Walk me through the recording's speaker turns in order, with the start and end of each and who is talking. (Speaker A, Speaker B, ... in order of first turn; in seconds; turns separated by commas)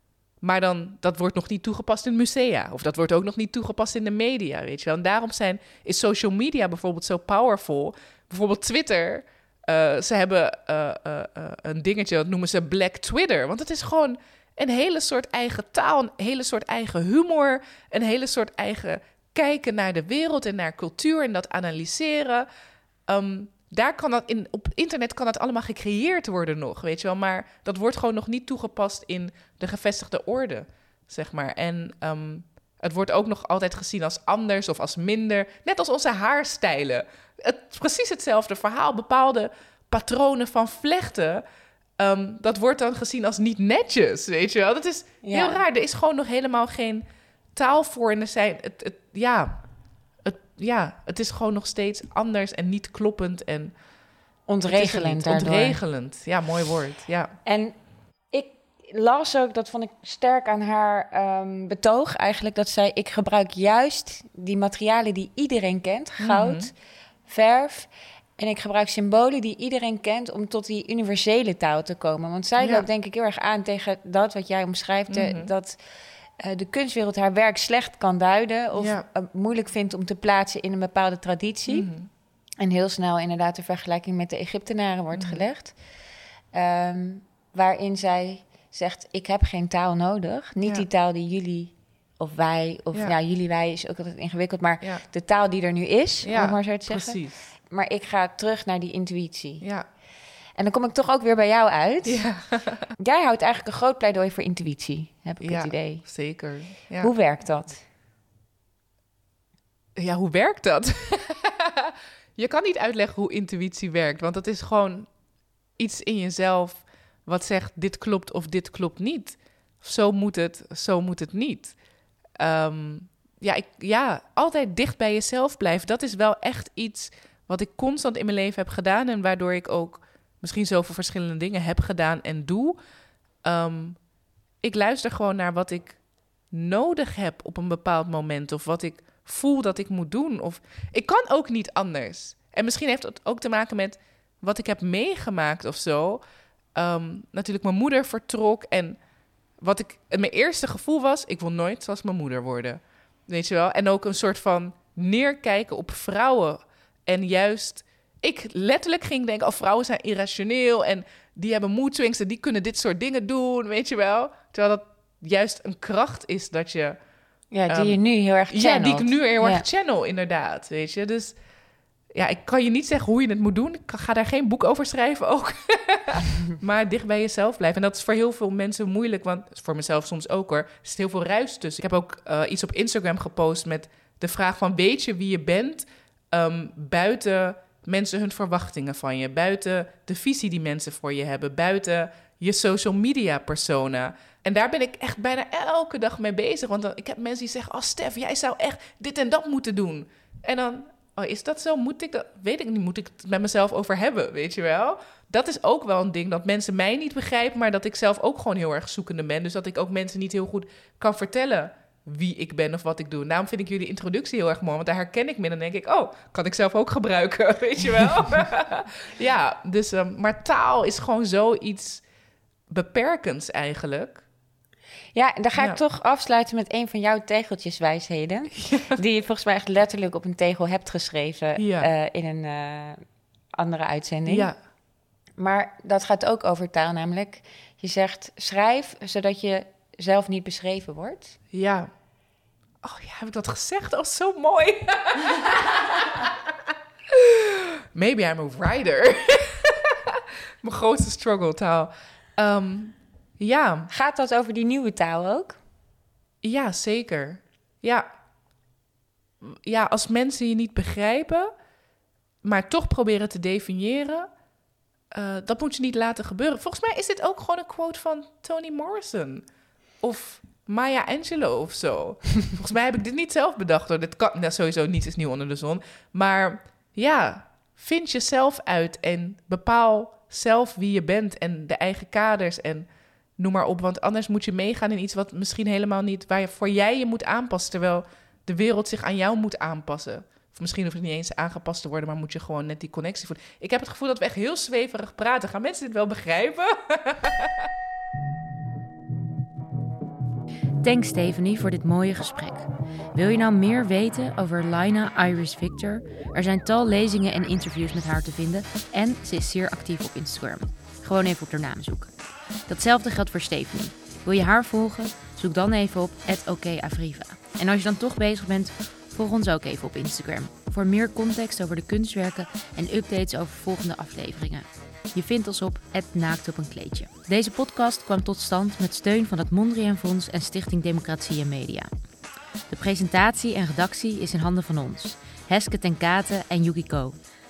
Speaker A: 0.4-22.4, Speaker A: 23.1-41.4, Speaker A: 42.0-47.0, Speaker B: 45.2-45.6, Speaker A: 47.5-49.6, Speaker A: 50.2-53.7, Speaker B: 54.5-55.8, Speaker A: 54.6-57.3, Speaker B: 57.5-57.8, Speaker B: 58.3-66.7, Speaker A: 66.2-66.7, Speaker B: 67.3-75.8, Speaker A: 72.6-72.9, Speaker A: 75.1-75.5, Speaker B: 76.4-81.9, Speaker A: 78.8-79.0, Speaker A: 81.7-82.1, Speaker B: 82.6-85.7, Speaker A: 85.1-85.4, Speaker B: 86.5-99.6, Speaker A: 96.2-97.5, Speaker A: 99.6-99.8, Speaker B: 100.6-102.2, Speaker A: 102.0-102.8, Speaker B: 103.0-106.0, Speaker A: 105.4-107.1, Speaker B: 107.0-107.8, Speaker A: 110.0-115.1, Speaker A: 115.8-121.7, Speaker A: 122.4-132.8, Speaker A: 133.4-134.0, Speaker A: 134.6-136.0, Speaker A: 136.5-146.2, Speaker A: 146.7-149.0, Speaker A: 149.6-167.0, Speaker B: 167.5-169.6, Speaker A: 167.7-171.3, Speaker A: 172.1-222.0, Speaker A: 222.7-224.2, Speaker B: 225.1-233.0, Speaker A: 231.6-231.9, Speaker B: 233.6-234.5, Speaker A: 234.2-234.5, Speaker B: 235.4-241.4, Speaker A: 241.5-241.9, Speaker A: 242.8-246.3, Speaker A: 247.1-253.9, Speaker B: 253.9-255.6, Speaker A: 256.4-258.1, Speaker A: 259.4-261.5, Speaker A: 262.4-264.3, Speaker A: 265.1-269.4, Speaker A: 270.0-282.9, Speaker A: 283.4-297.7, Speaker C: 300.8-312.1, Speaker C: 312.7-331.9, Speaker C: 332.7-337.1